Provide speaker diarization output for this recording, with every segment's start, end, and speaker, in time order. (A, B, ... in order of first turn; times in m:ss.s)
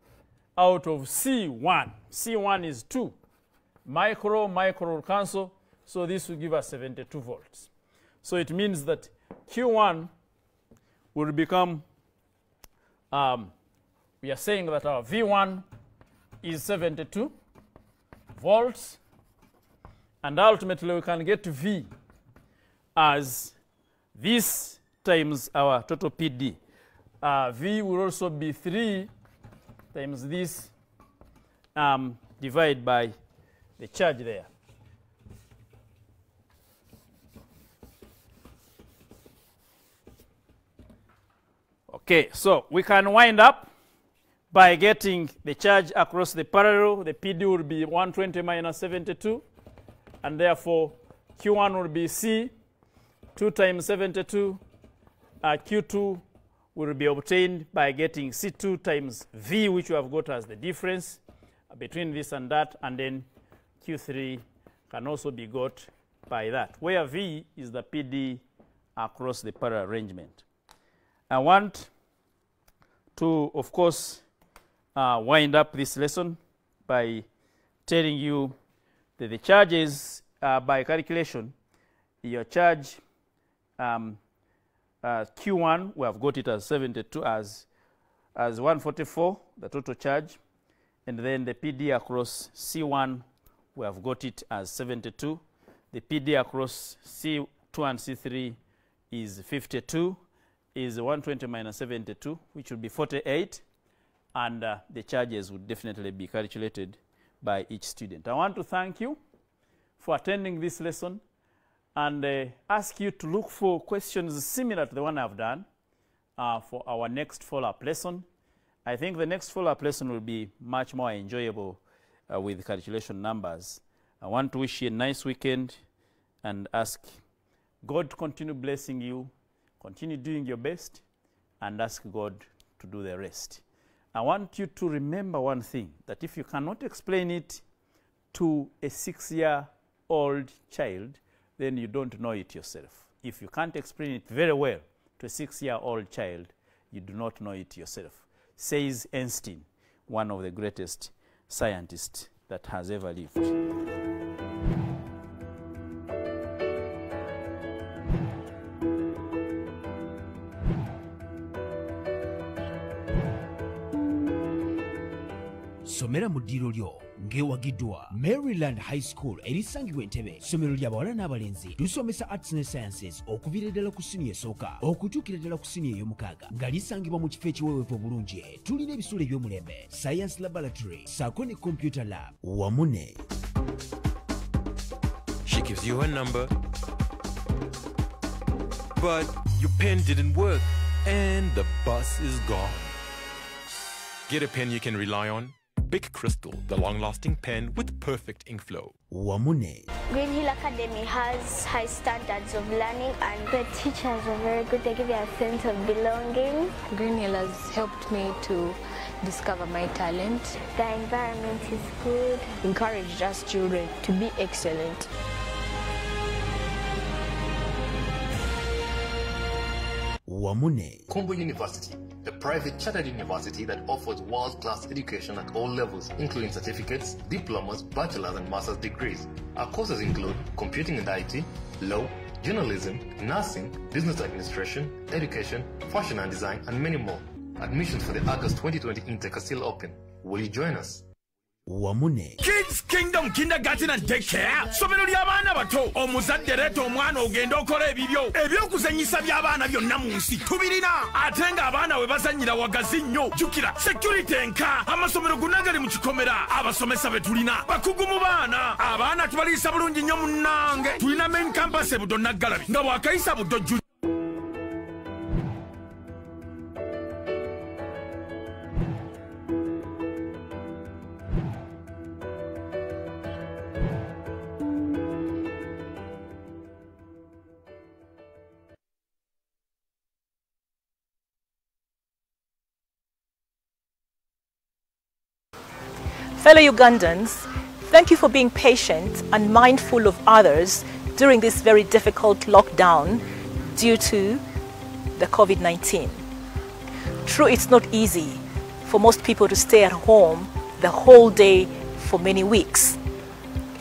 0:00.6-0:03.2 A
0:03.8-0:07.7 A
0:08.2-0:10.1 A
0:11.1-0:11.8 A
0:13.1-0:13.5 A
0:14.2-0:15.6 A
0:16.4-0:17.3 A
0:18.4-0:19.0 A
0:20.2-0:21.9 A
0:22.9-0:23.5 A
0:24.1-0:26.6 A
0:27.2-0:29.1 A
0:29.9-0:30.7 A
0:31.7-0:33.1 A
0:33.8-0:34.5 A
0:41.9-0:43.7 A
0:44.5-0:49.4 A
0:50.2-0:52.5 A
0:53.4-0:54.6 A
0:55.4-0:56.2 A
0:56.7-1:03.3 A
1:03.8-1:08.4 A
1:09.0-1:10.4 A
1:11.3-1:11.9 A
1:13.1-1:14.2 A
1:14.9-1:17.2 A
1:17.8-1:18.5 A
1:19.2-1:21.5 A
1:22.2-1:23.0 A
1:23.8-1:24.2 A
1:25.0-1:27.6 A
1:28.4-1:30.4 A
1:31.0-1:38.6 A
1:39.1-1:40.2 A
1:40.7-1:43.6 A
1:44.3-1:49.2 A
1:50.0-1:51.2 A
1:51.9-1:55.6 A
1:56.4-1:58.2 A
1:58.8-2:05.8 A
2:06.4-2:07.2 A
2:07.8-2:11.0 A
2:11.6-2:13.6 A
2:14.1-2:17.6 A
2:18.3-2:33.5 A
2:45.8-3:03.2 B
3:05.4-3:06.5 C
3:09.0-3:12.9 C
3:14.3-3:18.9 C
3:19.1-3:19.9 B
3:20.1-3:26.7 D
3:26.9-3:30.6 E
3:30.7-3:32.5 D
3:32.6-3:35.1 F
3:40.2-3:41.1 B
3:41.1-4:01.0 G
4:01.6-4:02.4 B
4:02.4-4:23.8 H
4:46.4-4:54.4 I
4:55.2-4:56.2 I
4:57.2-5:03.0 I